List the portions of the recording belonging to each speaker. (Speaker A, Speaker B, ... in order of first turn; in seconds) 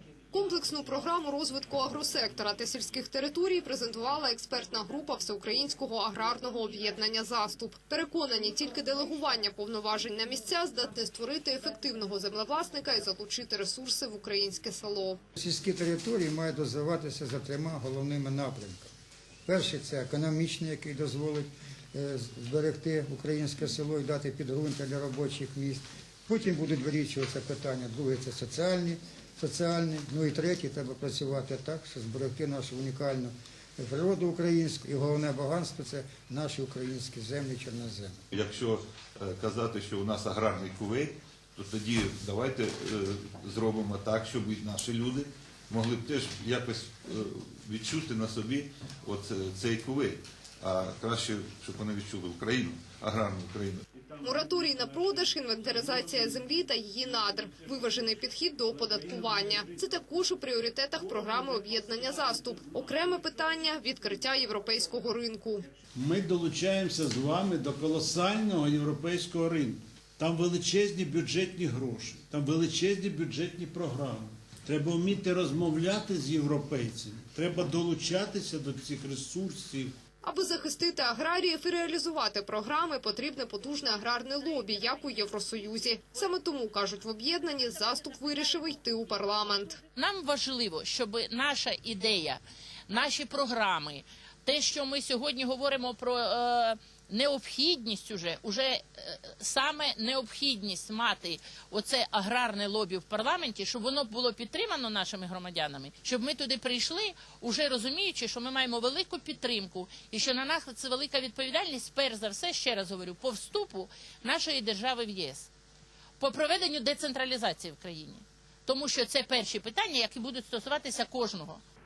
Speaker A: 0.3-15.2, 54.2-65.6, 80.2-89.8
Speaker B: 15.4-18.9, 19.5-38.2
Speaker C: 38.3-53.8
Speaker D: 56.0-56.3, 58.8-59.9, 65.9-80.0
Speaker E: 90.0-115.5, 116.2-121.6